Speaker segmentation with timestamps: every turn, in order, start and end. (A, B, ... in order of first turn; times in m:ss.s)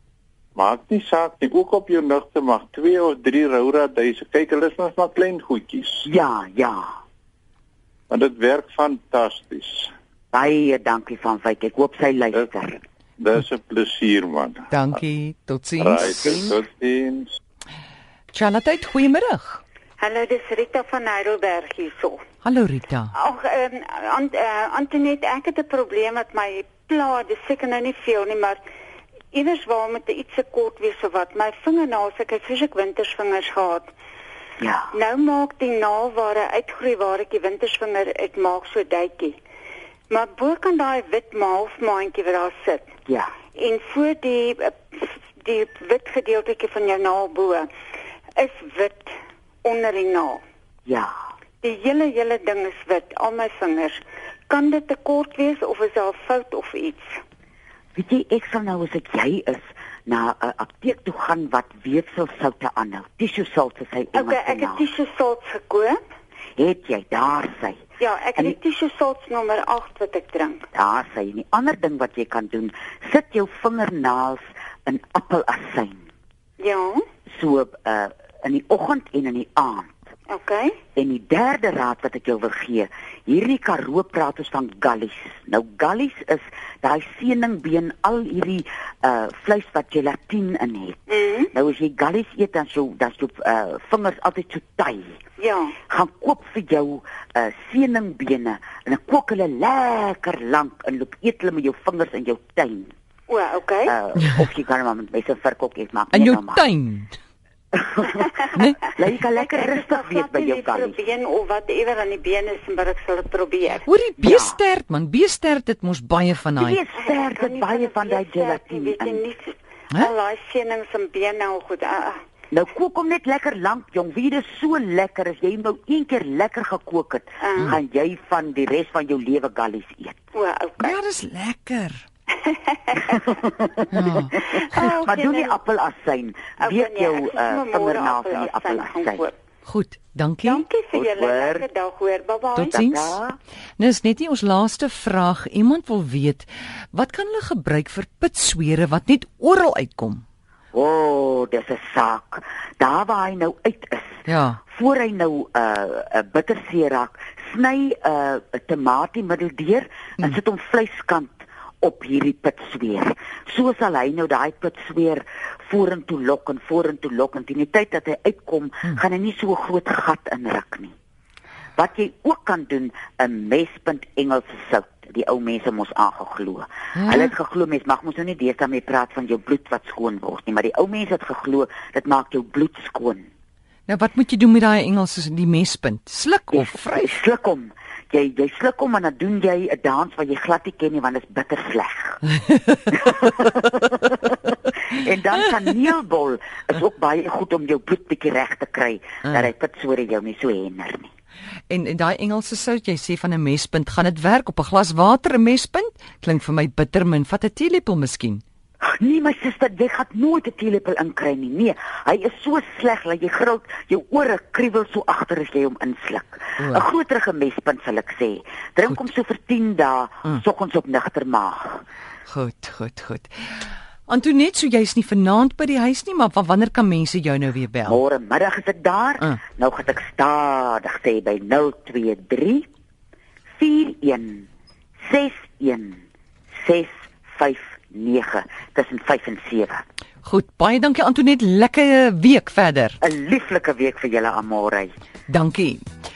0:00.6-0:06.1 A
0:06.0-0:06.9 B
0:08.1-0:09.9 A
0:10.3-0:12.8 B
0:13.2-0:14.7 A
0:14.7-0:16.1 C
0:15.8-0:17.3 A
0:16.0-0:16.6 B
0:18.3-0:19.6 C
0:20.0-0:22.2 D
0:22.4-0:23.1 C
0:23.1-0:28.6 D
0:29.3-0:33.9 D
0:34.6-0:34.9 B
0:34.9-0:39.4 D
0:40.1-0:42.9 D
0:43.1-0:43.3 B
0:43.6-0:47.7 D
0:48.4-0:49.1 D
0:49.6-0:50.4 D
0:51.6-0:57.1 D
0:57.9-1:04.9 B
1:04.1-1:06.0 D
1:06.6-1:07.8 B
1:08.0-1:10.6 D
1:10.7-1:16.0 B
1:16.6-1:17.0 D
1:17.3-1:20.0 B
1:20.3-1:20.8 D
1:21.0-1:35.2 B
1:31.1-1:31.5 D
1:35.4-1:35.7 D
1:35.9-1:42.9 B
1:43.3-1:43.9 D
1:43.8-1:46.6 B
1:46.1-1:47.2 C
1:47.7-1:48.3 B
1:48.5-1:48.8 C
1:48.8-1:51.0 B
1:49.4-1:53.8 D
1:53.8-1:56.8 C
1:54.2-1:54.6 B
1:56.6-1:59.2 B
1:57.0-2:02.2 D
2:02.5-2:10.2 B
2:07.4-2:07.7 D
2:10.3-2:10.9 D
2:10.8-2:12.0 C
2:12.4-2:13.3 D
2:13.2-2:19.3 B
2:13.9-2:14.3 C
2:14.7-2:15.5 D
2:16.6-2:19.3 D
2:19.6-2:20.6 C
2:20.4-2:22.7 D
2:20.9-2:21.6 B
2:22.5-2:23.2 C
2:22.7-2:23.4 B
2:23.8-2:30.2 C
2:30.7-2:50.9 B
2:34.2-2:34.6 C
2:51.8-3:03.3 B
2:56.9-2:57.3 C
3:03.9-3:07.2 C
3:06.5-3:12.2 B
3:12.9-3:21.1 B
3:21.7-3:28.4 C
3:29.0-3:41.8 B
3:36.6-3:36.8 C
3:42.3-3:48.0 C
3:47.8-3:52.7 B
3:53.6-3:54.5 B
3:55.0-3:56.0 B
3:56.6-3:59.8 B
4:00.2-4:03.0 C
4:03.0-4:04.9 B
4:05.3-4:05.8 C